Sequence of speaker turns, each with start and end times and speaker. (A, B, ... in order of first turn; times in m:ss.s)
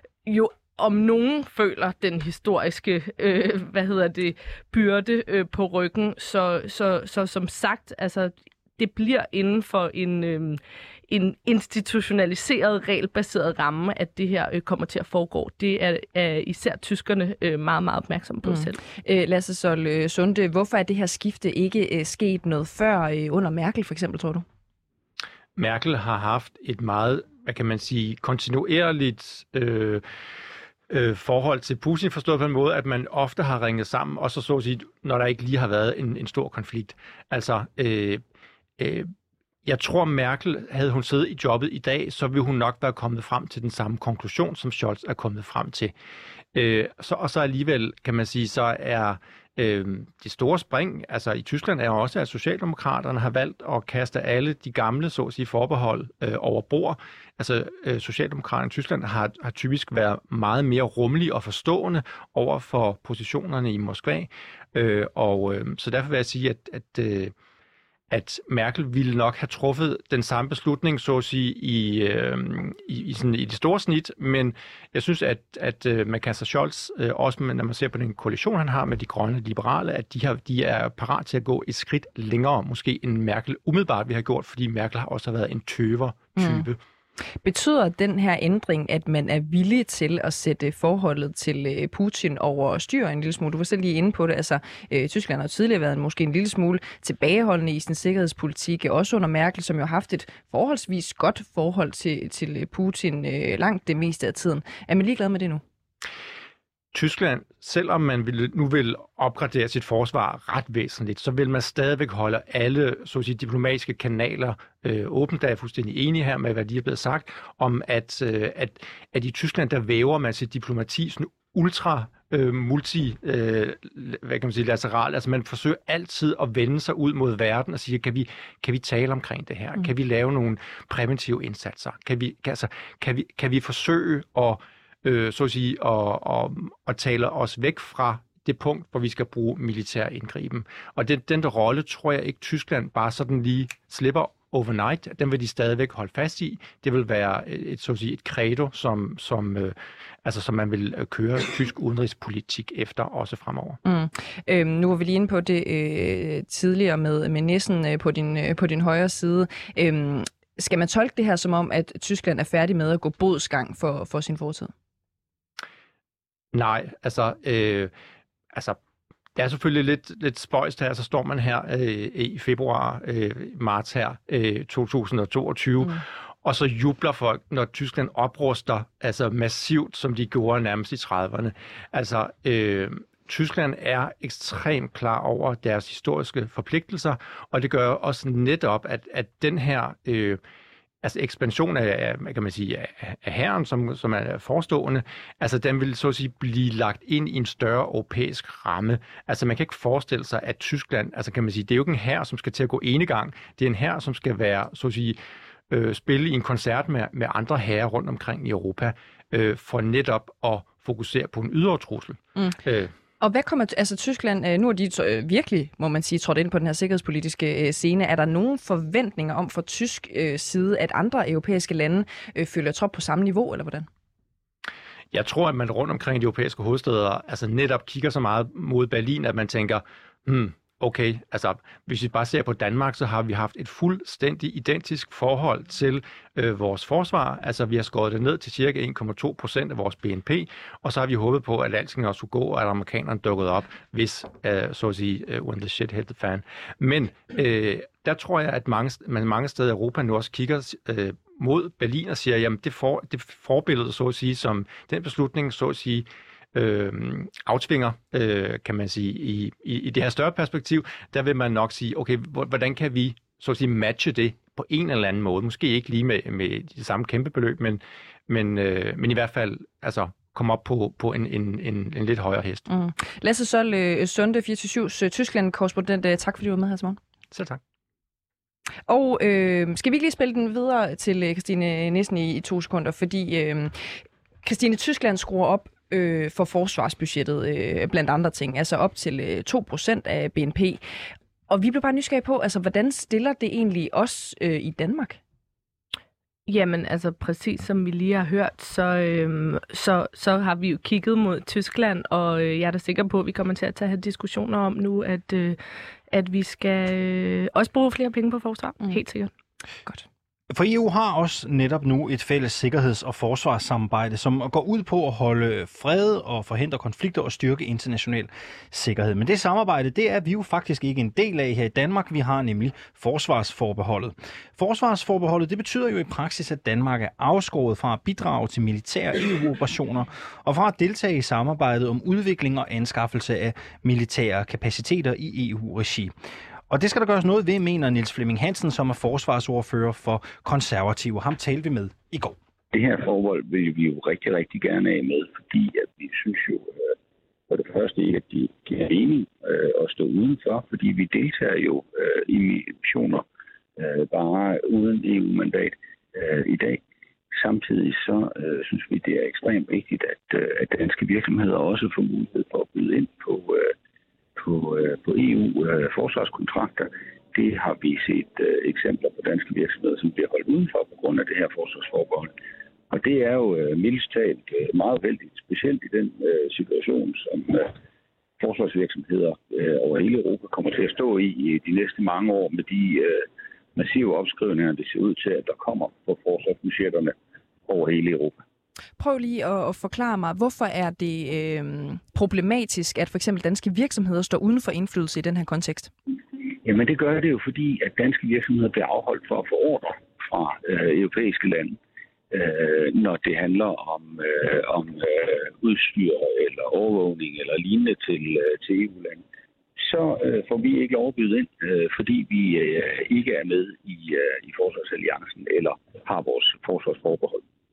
0:00.3-0:18.8 A
0:18.5-0:24.4 B
0:25.6-0:30.0 C
0:30.9-0:38.2 C
0:38.8-0:39.1 C
0:39.6-0:45.9 C
0:46.5-1:07.3 C
1:08.1-1:26.8 C
1:26.4-1:26.6 B
1:27.4-1:45.6 B
1:46.9-2:33.8 C
2:33.8-2:44.7 B
2:46.5-2:47.9 C
2:48.5-2:48.8 C
2:49.4-3:10.4 C
3:11.0-3:25.2 C
3:25.7-3:32.9 C
3:33.2-3:43.9 B
3:45.1-4:32.7 C
4:32.7-4:37.0 B
4:37.3-4:37.6 C
4:38.9-4:43.9 B
4:44.4-4:50.8 B
4:51.5-4:55.2 B
4:56.5-5:05.6 A
5:06.1-5:09.3 A
5:10.5-5:36.1 D
5:36.7-5:42.4 D
5:42.7-5:46.9 E
5:47.5-5:53.2 E
5:53.8-5:56.8 E
5:57.4-6:03.7 E
6:04.4-6:12.3 E
6:12.9-6:17.8 E
6:18.4-6:27.2 E
6:27.7-6:28.4 E
6:29.0-6:35.9 B
6:36.6-6:41.8 E
6:42.3-6:49.2 E
6:49.8-6:57.4 E